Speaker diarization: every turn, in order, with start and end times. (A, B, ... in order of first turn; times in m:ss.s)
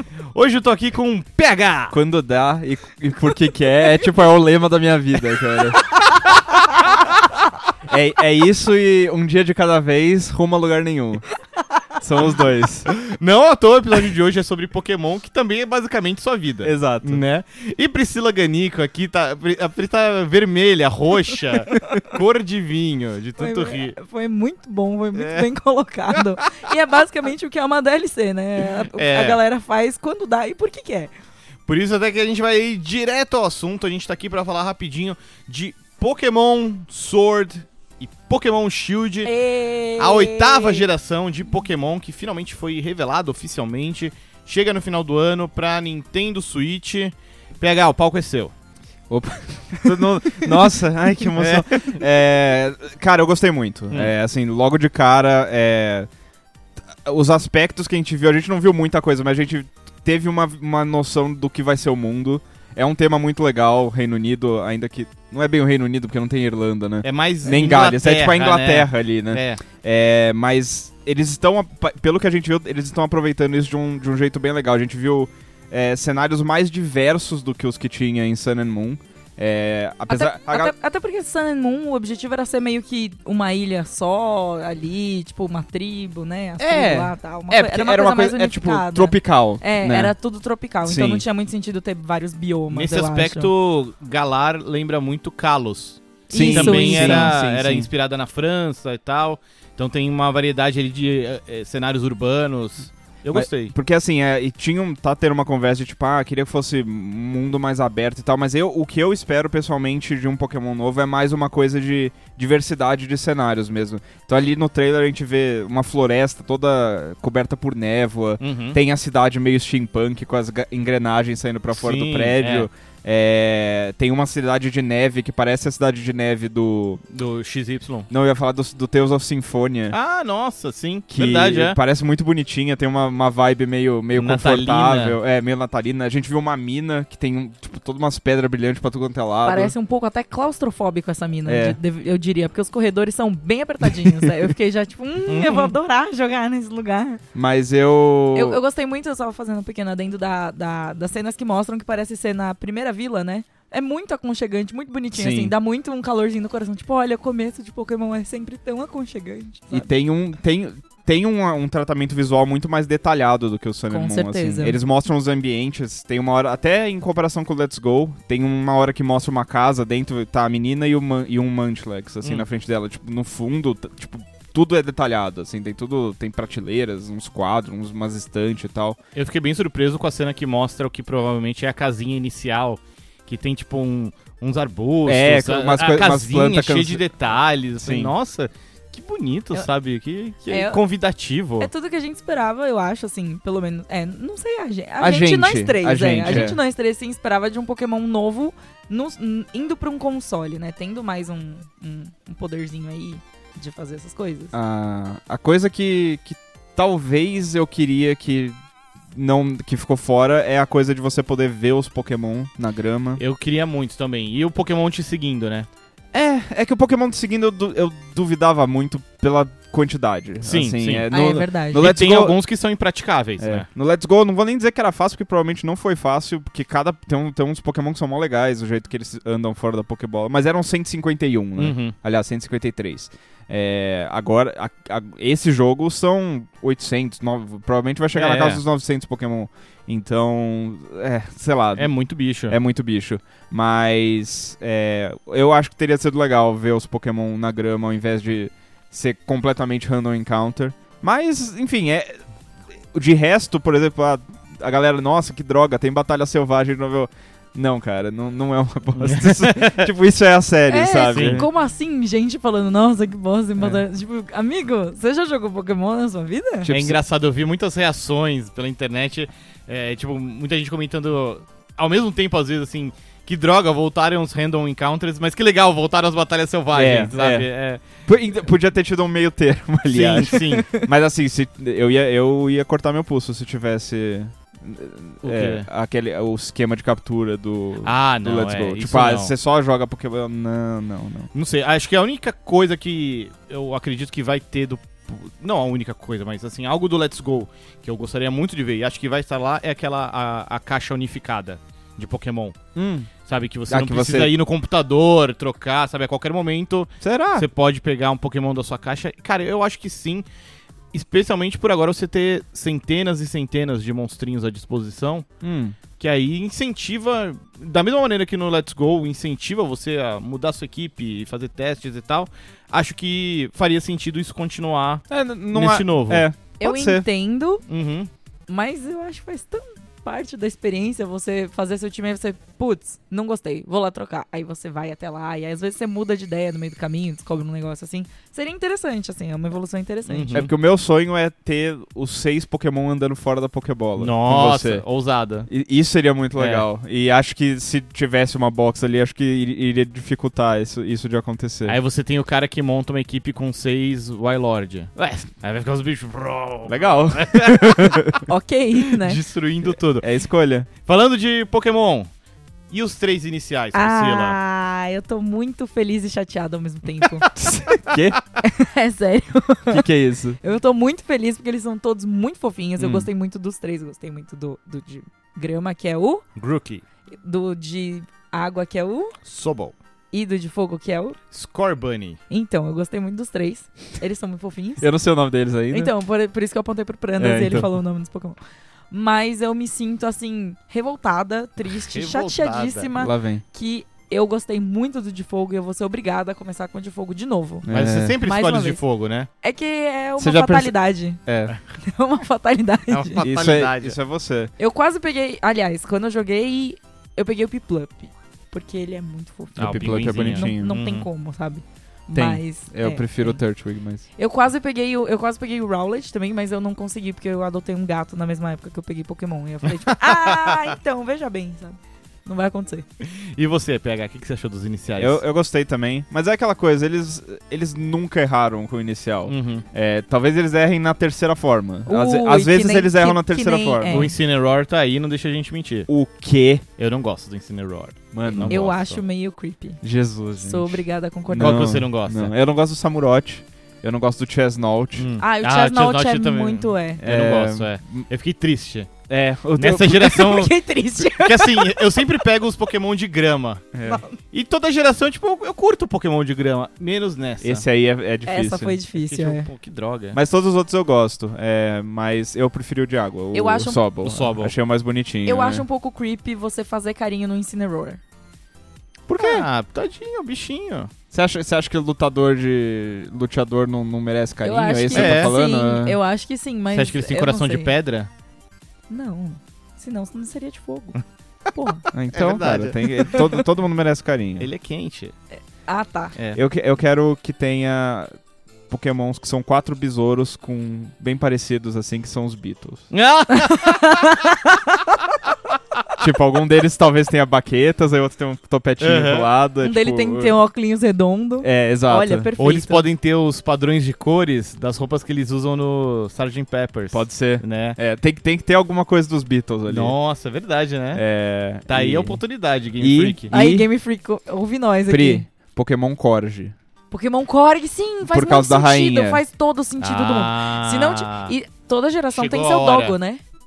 0:00.3-0:02.0 A
0:01.9-0:05.9 B
0:07.9-0:11.3 B
0:12.0-0:12.9 B
0:13.0-0:24.0 A
0:16.6-0:17.2 B
0:23.4-0:31.1 C
0:25.1-0:25.5 A
0:26.1-0:26.6 A
0:28.8-0:29.4 A
0:31.7-0:39.3 A
0:39.2-0:40.8 C
0:40.0-0:48.5 A
0:49.1-0:56.1 B
0:50.2-0:50.5 C
0:51.4-0:52.0 A
0:57.0-1:20.7 B
1:07.0-1:09.6 A
1:20.1-1:33.5 C
1:26.6-1:30.2 B
1:30.8-1:31.2 B
1:32.7-1:43.7 A
1:36.3-1:37.3 C
1:36.3-1:37.9 B
1:43.3-2:07.0 B
1:58.4-1:58.8 A
2:01.7-2:02.7 A
2:07.1-2:08.1 A
2:08.1-2:10.0 B
2:09.9-2:11.8 A
2:11.1-2:19.7 B
2:14.1-2:15.2 A
2:19.4-2:27.2 C
2:21.4-2:21.8 B
2:25.3-2:25.8 A
2:27.3-2:28.6 B
2:28.3-2:39.9 C
2:35.1-2:35.5 B
2:39.7-2:59.0 B
2:43.9-2:44.8 C
2:52.2-2:52.5 A
2:59.1-3:11.7 A
3:05.0-3:07.1 B
3:07.8-3:08.1 B
3:10.5-3:10.8 C
3:11.6-3:24.5 C
3:15.0-3:16.6 B
3:16.2-3:16.6 A
3:24.5-3:28.6 B
3:29.1-3:33.2 B
3:33.2-3:35.7 A
3:36.1-3:42.4 B
3:40.4-3:41.1 A
3:41.1-3:41.9 C
3:41.7-3:43.7 A
3:43.4-4:12.2 B
3:51.6-3:52.0 A
3:58.1-3:58.6 A
4:01.7-4:02.6 A
4:12.9-4:21.5 B
4:19.0-4:19.9 A
4:20.7-4:26.7 C
4:21.1-4:21.5 A
4:26.6-4:27.0 B
4:26.7-4:37.8 A
4:36.7-4:37.5 B
4:38.0-4:51.3 B
4:39.9-4:40.7 A
4:45.2-4:45.7 A
4:47.8-4:49.3 A
4:51.3-5:02.6 A
5:02.7-5:03.1 B
5:03.2-5:10.2 A
5:03.7-5:04.3 B
5:07.0-5:07.5 B
5:10.9-5:15.3 A
5:15.4-5:15.8 B
5:16.0-5:26.3 A
5:25.1-5:27.0 B
5:26.6-5:27.6 C
5:27.7-5:28.1 A
5:28.5-5:40.5 C
5:40.0-5:40.5 A
5:40.3-5:44.8 B
5:44.0-5:45.5 A
5:45.5-5:51.8 B
5:46.3-5:46.7 A
5:51.6-5:58.1 A
5:56.7-5:58.2 B
5:58.3-5:59.2 C
5:58.9-6:00.0 A
5:59.9-6:00.7 B
6:00.8-6:02.1 A
6:02.7-6:04.4 A
6:03.7-6:07.3 C
6:07.3-6:08.2 B
6:08.4-6:09.9 C
6:09.7-6:10.4 B
6:10.4-6:16.2 C
6:12.8-6:13.1 B
6:16.4-6:16.8 A
6:17.2-6:19.2 C
6:19.2-6:19.8 A
6:20.1-6:21.2 C
6:21.3-6:22.2 A
6:22.3-6:24.9 C
6:24.8-6:25.9 B
6:25.7-6:28.4 C
6:27.2-6:27.7 B
6:28.9-6:37.6 C
6:31.7-6:32.9 A
6:33.0-6:33.4 B
6:37.6-6:38.2 B
6:37.7-6:39.3 A
6:38.2-6:38.8 C
6:39.4-6:41.2 C
6:40.2-6:41.5 B
6:41.8-6:43.2 C
6:42.9-6:44.0 A
6:43.2-6:44.5 B
6:44.6-6:53.4 C
6:49.6-6:50.7 B
6:49.6-6:51.1 A
6:52.1-6:54.0 B
6:54.2-7:02.8 C
6:59.9-7:00.6 A
7:03.0-7:05.2 A
7:05.0-7:14.1 B
7:09.3-7:09.6 A
7:11.8-7:14.2 C
7:13.9-7:15.9 A
7:15.9-7:16.6 B
7:16.8-7:19.0 A
7:18.1-7:18.6 B
7:18.5-7:19.8 C
7:19.8-7:25.1 B
7:20.4-7:21.7 C
7:21.3-7:22.3 A
7:25.0-7:28.9 A
7:25.2-7:27.0 C
7:27.0-7:28.1 B
7:29.1-7:30.4 B
7:29.6-7:33.7 A
7:30.2-7:32.1 C
7:33.7-7:34.0 B
7:33.8-7:34.2 C
7:34.3-7:37.6 A
7:37.4-7:38.8 B
7:38.2-7:39.5 C
7:38.9-7:40.2 A
7:40.1-7:45.6 B
7:43.3-7:43.9 C
7:44.0-7:44.5 A
7:45.2-7:48.0 C
7:49.1-7:49.4 B
7:49.2-7:50.9 A
7:51.1-7:56.0 B
7:54.4-7:57.7 C
7:54.9-7:55.3 A
7:56.7-7:58.1 A
7:58.9-8:01.0 C
8:01.5-8:01.8 C
8:01.9-8:04.5 B
8:02.1-8:03.1 A
8:04.4-8:05.1 A
8:05.6-8:06.2 C
8:06.3-8:08.1 B
8:08.7-8:12.9 B
8:12.9-8:14.1 A
8:13.4-8:15.1 C
8:16.0-8:20.4 B
8:18.8-8:19.3 A
8:19.6-8:22.9 C
8:21.4-8:22.3 B
8:22.4-8:27.8 A
8:26.9-8:30.0 B
8:29.7-8:31.0 A
8:30.9-8:32.2 B
8:31.6-8:33.3 A
8:32.7-8:33.7 B
8:33.3-8:35.3 C
8:34.9-8:36.5 B
8:36.9-8:43.2 C
8:38.0-8:39.2 B
8:39.8-8:41.4 A
8:42.1-8:43.0 A